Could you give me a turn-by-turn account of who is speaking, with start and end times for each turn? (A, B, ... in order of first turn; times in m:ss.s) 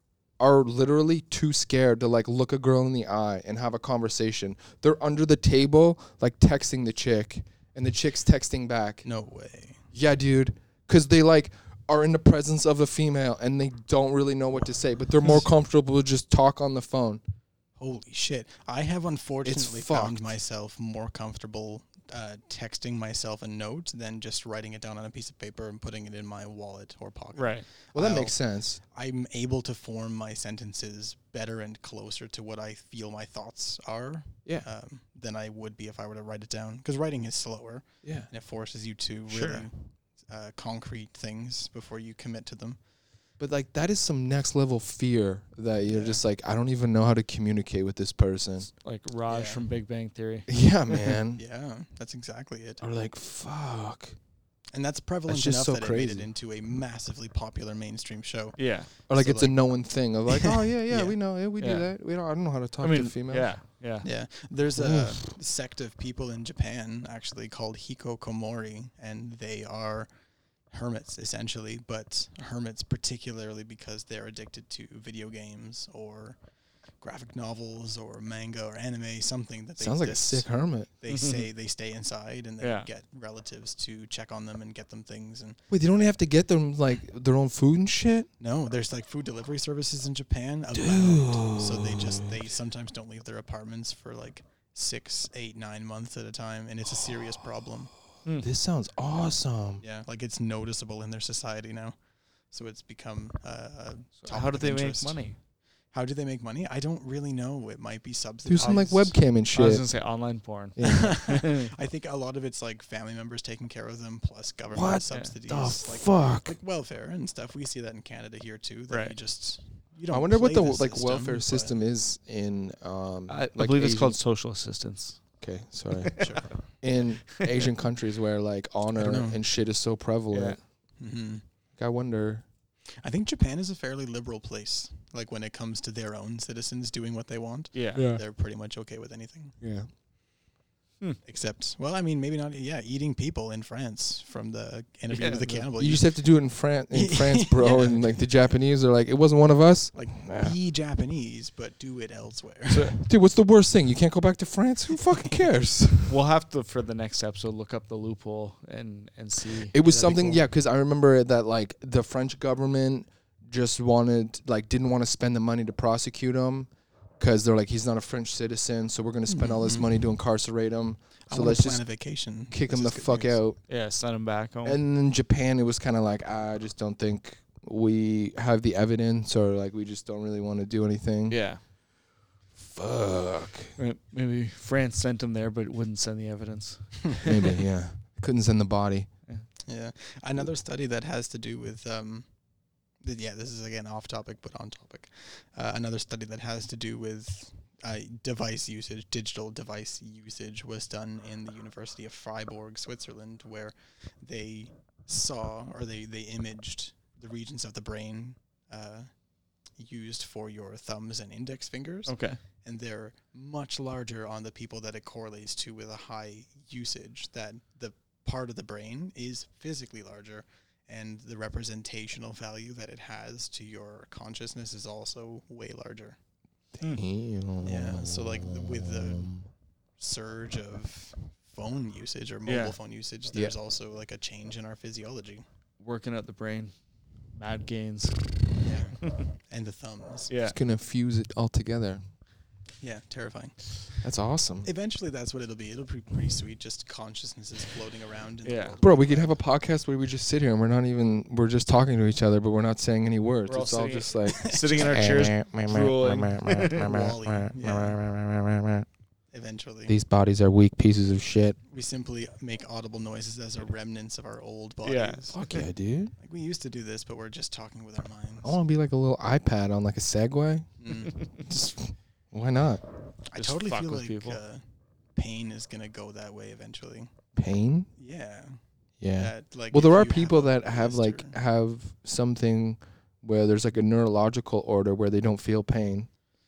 0:00.4-0:09.0 A
0:09.0-0:09.8 B
0:09.9-0:17.2 A
0:17.8-0:42.8 B
0:19.4-0:20.3 A
0:27.3-0:27.6 C
0:27.9-0:28.8 A
0:38.0-0:38.3 A
0:39.3-0:39.7 C
0:43.4-0:48.7 A
0:45.9-0:46.2 B
0:48.7-0:51.1 C
0:49.3-0:49.6 B
0:50.5-0:51.4 A
0:51.4-0:52.8 B
0:52.8-0:54.2 A
0:54.7-0:59.6 B
0:55.3-0:56.3 A
0:58.6-0:58.9 C
0:59.1-1:03.5 A
1:00.3-1:01.2 B
1:01.6-1:01.9 C
1:02.8-1:04.1 C
1:04.0-1:10.1 B
1:04.8-1:05.3 A
1:10.7-1:16.4 B
1:17.0-1:25.6 B
1:19.8-1:20.9 A
1:21.1-1:21.5 C
1:22.6-1:22.9 C
1:25.7-1:28.3 A
1:28.4-1:37.9 B
1:30.7-1:32.4 A
1:38.4-1:39.8 A
1:39.8-1:41.9 B
1:42.5-1:45.2 B
1:44.2-1:45.4 C
1:45.9-1:49.2 B
1:48.4-1:49.8 A
1:48.6-1:48.9 C
1:49.5-1:51.7 C
1:50.8-1:51.1 A
1:50.8-2:01.7 B
1:54.7-1:56.6 A
1:58.9-1:59.2 C
2:00.1-2:04.2 A
2:03.3-2:05.2 C
2:05.4-2:10.6 A
2:06.2-2:06.6 B
2:08.9-2:09.4 B
2:10.3-2:10.6 C
2:11.0-2:11.4 B
2:11.8-2:12.4 A
2:13.0-2:19.6 B
2:17.7-2:18.0 C
2:17.9-2:18.2 A
2:19.6-2:19.9 A
2:21.2-2:26.2 B
2:25.1-2:25.7 C
2:25.7-2:30.5 A
2:26.9-2:28.2 B
2:29.9-2:33.0 B
2:32.7-2:32.9 C
2:33.0-2:36.1 A
2:36.0-2:39.7 C
2:39.7-2:51.8 A
2:39.8-2:40.4 B
2:49.3-2:50.0 B
2:51.3-2:53.4 B
2:52.5-2:53.6 A
2:53.7-2:54.8 C
2:54.6-3:01.4 A
3:01.3-3:01.6 C
3:02.6-3:03.7 A
3:03.8-3:07.6 C
3:07.2-3:09.1 A
3:09.7-3:12.3 B
3:13.0-3:29.1 B
3:29.8-3:46.2 B
3:32.1-3:32.4 C
3:46.8-3:49.5 A
3:47.6-3:49.3 B
3:50.0-3:55.4 B
3:52.4-3:52.8 C
3:55.8-3:56.7 C
3:57.3-3:58.4 C
3:58.6-4:00.3 B
3:59.0-3:59.3 C
4:00.3-4:00.6 C
4:00.4-4:02.0 A
4:02.8-4:04.0 B
4:04.0-4:04.7 A
4:04.6-4:09.4 B
4:08.4-4:08.8 C
4:08.8-4:18.8 A
4:13.5-4:16.8 C
4:14.3-4:15.0 B
4:16.7-4:18.0 B
4:19.3-4:20.0 B
4:19.9-4:21.6 A
4:21.7-4:25.6 B
4:24.8-4:25.2 C
4:25.3-4:26.1 A
4:26.2-4:28.6 B
4:28.4-4:30.7 A
4:30.8-4:31.3 B
4:31.4-4:32.8 A
4:33.3-4:34.6 B
4:33.3-4:34.4 C
4:35.2-4:37.1 B
4:37.4-4:37.9 A
4:38.0-4:38.6 B
4:39.0-4:46.1 A
4:39.1-4:41.3 B